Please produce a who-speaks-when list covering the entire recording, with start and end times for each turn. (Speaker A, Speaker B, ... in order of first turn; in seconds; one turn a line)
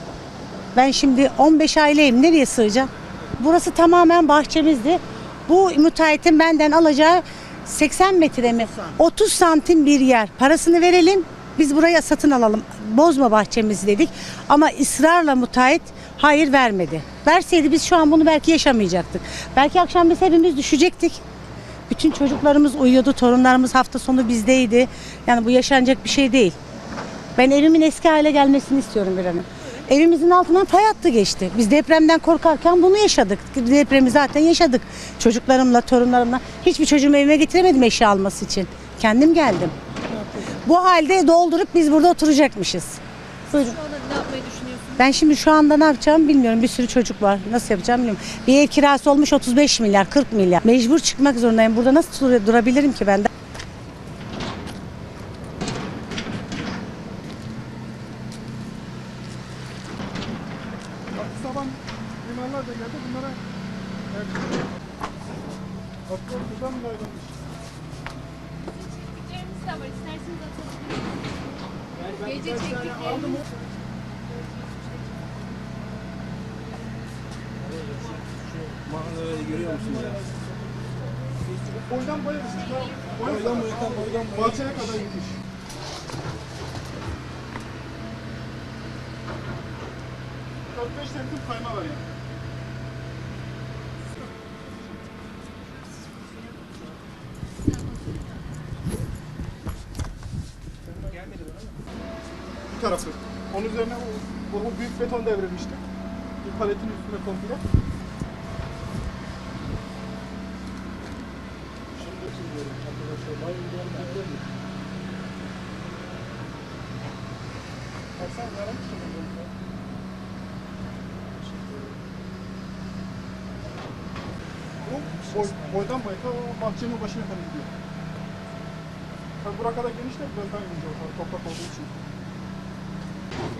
Speaker A: 0.7-21.2
Speaker A: 21.9-26.6
Speaker A: 27.4-39.7
Speaker A: 40.6-43.9
Speaker B: 43.8-44.9
Speaker A: 44.9-53.3
Speaker C: 61.1-63.4
Speaker C: 64.1-64.6
Speaker C: 66.1-67.3
Speaker B: 69.3-70.8
Speaker C: 72.0-73.4
Speaker D: 72.2-73.1
Speaker D: 77.8-80.3
Speaker C: 81.8-85.3
Speaker D: 83.1-85.0
Speaker C: 90.7-92.0
Speaker C: 102.7-105.8
Speaker C: 106.4-107.6
Speaker D: 112.0-114.4
Speaker C: 118.2-119.5
Speaker C: 124.8-127.7
Speaker D: 125.2-125.8
Speaker C: 129.4-131.9